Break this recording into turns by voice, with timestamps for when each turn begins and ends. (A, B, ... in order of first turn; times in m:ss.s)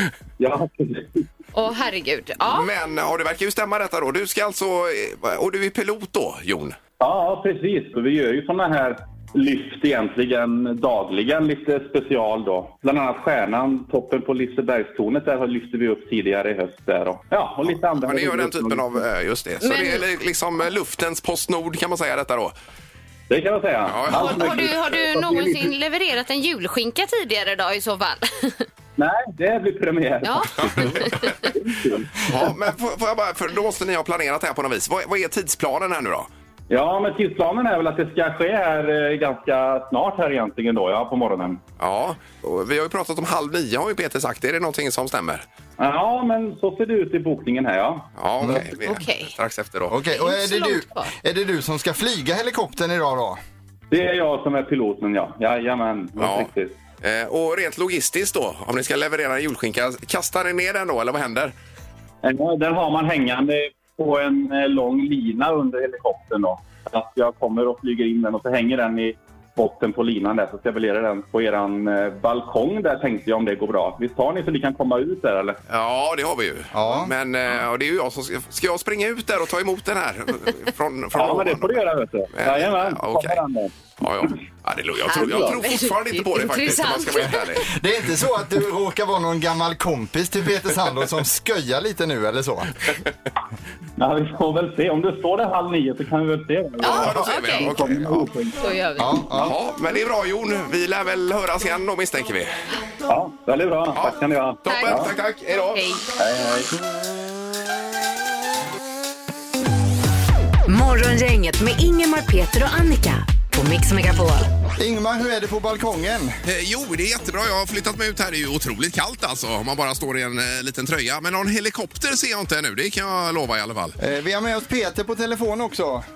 0:00.4-0:01.2 A
0:01.5-0:02.7 B
0:02.5-0:06.8 C
0:07.0-0:19.0 A
0:17.7-0:22.5 C
0:19.6-0:20.0 B
0:23.3-0:25.7 A
0:23.9-0:24.7 C
0:24.1-0:28.6 B
0:29.0-0:32.2 A
0:30.2-0:31.3 B
0:30.6-0:31.3 C
0:32.2-0:36.3 C
0:36.7-0:41.6 A
0:41.8-0:45.4 C
0:45.8-0:48.1 A
0:48.2-0:49.9 C
0:48.8-0:49.3 B
0:49.9-0:53.4 D
0:50.1-0:51.1 B
0:53.9-0:56.8 A
0:56.2-1:01.5 C
1:02.2-1:15.6 A
1:15.7-1:23.4 C
1:16.7-1:17.1 D
1:21.1-1:23.7 A
1:24.0-1:27.7 C
1:25.0-1:27.5 B
1:27.6-1:32.7 D
1:34.0-1:38.6 A
1:36.8-1:37.8 B
1:36.8-1:38.3 C
1:38.6-1:39.5 B
1:39.0-1:39.5 D
1:39.4-1:42.5 C
1:43.0-1:45.1 A
1:43.9-1:45.8 C
1:44.6-1:45.1 B
1:45.7-1:46.0 B
1:46.2-1:46.7 A
1:50.7-1:54.5 E
1:54.8-1:56.3 D
1:56.4-2:04.0 C
2:04.0-2:06.0 D